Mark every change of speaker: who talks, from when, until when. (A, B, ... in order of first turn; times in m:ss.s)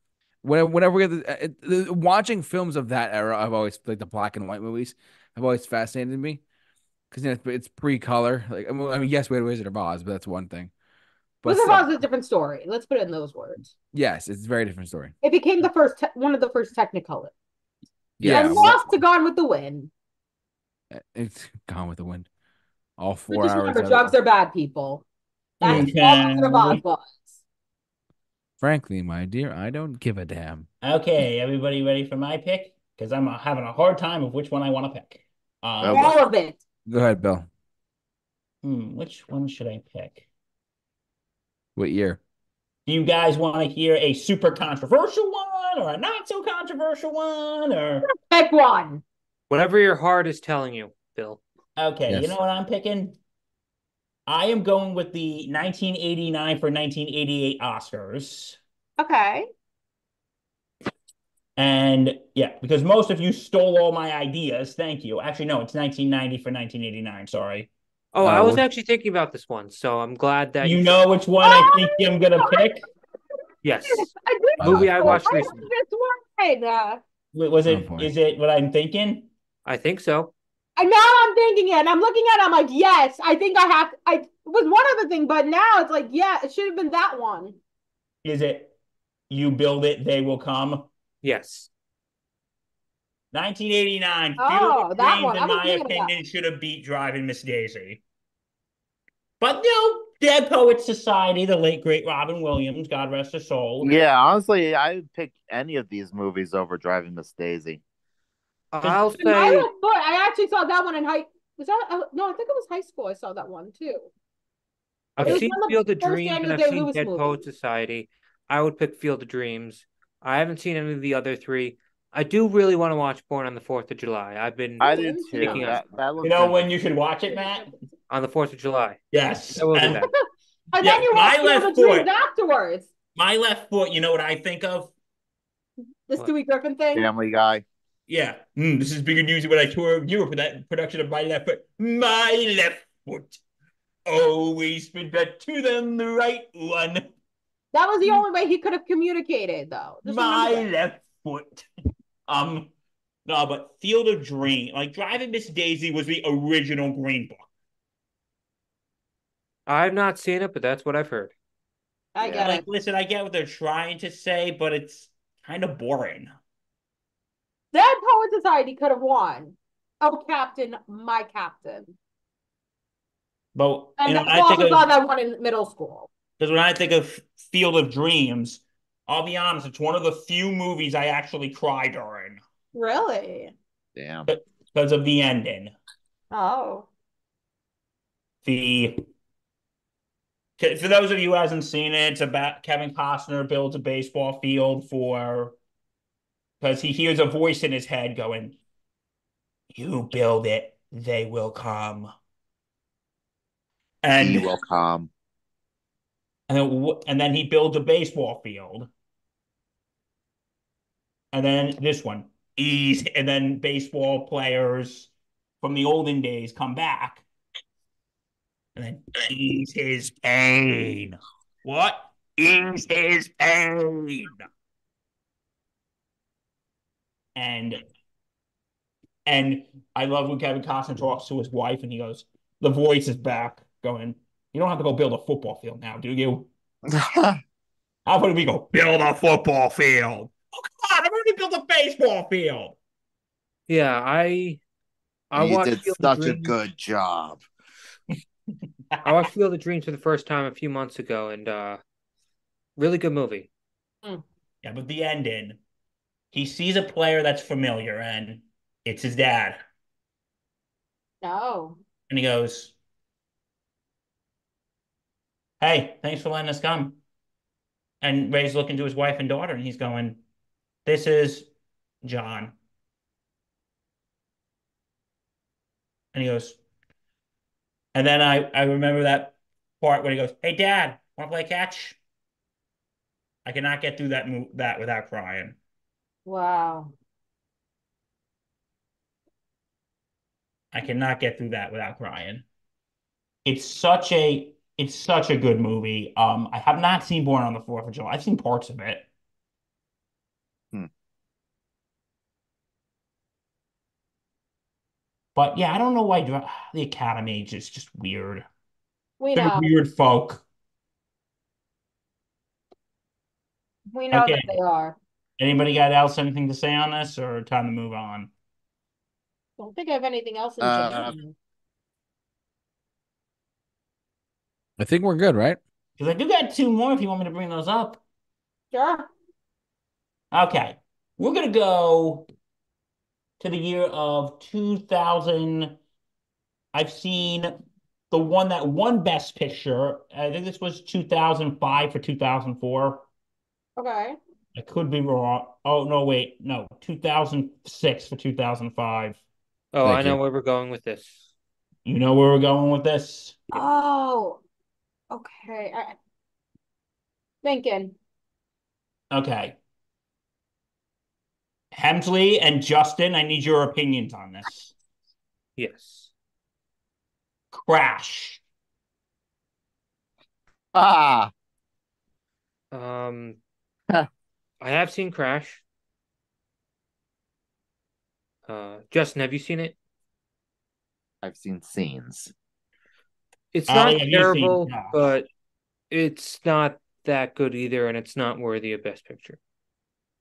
0:00.4-0:06.4 A
0:07.1-0:10.7 A
0:11.4-0:11.9 A
0:11.4-0:13.7 B
0:13.9-0:15.1 A
0:15.2-0:17.3 B
0:18.2-0:18.7 A
0:18.2-0:18.7 C
0:18.2-0:19.9 B
0:20.9-0:22.3 A
0:23.0-0:24.1 A
0:23.3-0:25.0 B
0:25.6-0:27.4 B
0:25.6-0:26.8 C
0:28.6-0:30.7 A
0:30.8-0:36.2 C
0:35.8-0:36.1 D
0:35.9-0:36.6 B
0:36.8-0:37.5 A
0:38.6-0:40.2 C
0:41.8-0:42.2 A
0:42.8-0:48.1 C
0:48.1-0:49.0 B
0:49.5-0:51.4 E
0:51.8-0:53.2 C
0:52.1-0:52.4 A
0:54.3-0:58.6 C
0:59.0-0:59.5 B
1:01.6-1:07.7 C
1:08.1-1:11.1 E
1:08.2-1:08.6 A
1:10.6-1:12.8 C
1:11.4-1:12.7 B
1:13.6-1:14.1 E
1:13.8-1:17.0 B
1:14.6-1:15.2 A
1:14.6-1:15.7 E
1:17.3-1:19.3 C
1:17.7-1:18.1 A
1:19.6-1:20.3 E
1:20.8-1:27.6 B
1:28.2-1:28.7 C
1:29.3-1:30.9 C
1:31.2-1:31.7 E
1:33.3-1:38.0 C
1:34.4-1:36.1 B
1:39.4-1:43.9 C
1:43.8-1:47.8 D
1:48.7-1:49.7 E
1:48.8-1:54.1 B
1:55.2-2:05.8 E
1:55.2-1:57.4 B
2:04.8-2:06.6 D
2:04.8-2:05.8 B
2:06.2-2:07.7 C
2:07.3-2:07.7 B
2:08.1-2:09.0 E
2:09.1-2:10.0 C
2:09.5-2:10.1 E
2:09.9-2:10.2 B
2:10.7-2:12.9 B
2:10.8-2:12.1 C
2:13.1-2:14.9 C
2:16.1-2:17.1 B
2:16.9-2:17.6 D
2:18.1-2:23.4 C
2:24.1-2:27.1 C
2:27.7-2:30.7 B
2:30.0-2:31.7 C
2:32.3-2:32.7 C
2:33.2-2:37.5 C
2:39.7-2:41.3 E
2:42.1-2:42.6 B
2:42.2-2:42.6 D
2:42.4-2:46.3 C
2:47.7-2:51.9 B
2:53.5-2:54.8 C
2:54.0-2:56.1 B
2:56.4-3:02.4 C
3:02.7-3:03.5 B
3:04.0-3:04.3 D
3:04.3-3:05.7 C
3:06.3-3:06.9 B
3:08.4-3:09.0 C
3:10.6-3:15.6 C
3:16.6-3:18.6 C
3:19.7-3:22.1 C
3:24.0-3:24.5 C
3:24.2-3:25.1 D
3:26.5-3:28.9 C
3:31.3-3:35.1 C
3:35.6-3:37.2 C
3:38.8-3:44.5 C
3:47.4-3:47.8 C
3:49.2-3:56.5 C
3:56.9-3:57.4 D
3:58.0-4:02.8 C
4:03.7-4:04.6 E
4:05.3-4:06.5 E
4:05.3-4:07.4 D
4:08.9-4:09.2 C
4:09.0-4:11.8 E
4:12.8-4:13.5 E
4:14.6-4:15.6 C
4:16.3-4:19.6 C
4:21.2-4:21.8 B
4:22.1-4:22.7 C
4:25.6-4:27.0 C
4:28.0-4:30.2 C
4:30.8-4:31.5 C
4:32.0-4:32.5 C
4:36.1-4:36.6 C
4:37.9-4:42.0 C
4:43.4-4:45.6 C
4:46.2-4:46.9 B
4:50.7-4:52.4 C
4:53.4-4:59.1 C
5:05.3-5:08.5 C
5:09.2-5:09.7 B
5:09.3-5:10.4 C
5:13.9-5:15.0 B
5:14.1-5:14.5 C
5:15.4-5:18.3 C
5:19.6-5:21.3 B
5:20.6-5:21.1 D
5:24.8-5:25.6 A
5:26.0-5:28.0 C
5:28.7-5:29.1 B
5:30.3-5:32.3 C
5:33.4-5:35.8 C
5:36.7-5:37.5 C
5:38.1-5:43.0 C
5:43.8-5:44.2 B
5:44.5-5:49.2 C
5:49.7-5:51.3 E
5:49.8-5:50.2 A
5:51.8-5:53.6 C
5:53.5-5:54.4 B
5:55.1-5:56.0 B
5:57.4-5:58.0 B
5:59.1-5:59.6 C
6:01.7-6:04.7 C
6:05.6-6:06.1 E
6:07.5-6:08.4 C
6:10.7-6:11.3 D
6:12.7-6:13.4 E
6:14.6-6:15.6 E
6:18.5-6:19.8 E
6:21.2-6:22.3 D
6:23.5-6:25.3 E
6:23.7-6:25.0 C
6:25.9-6:29.4 E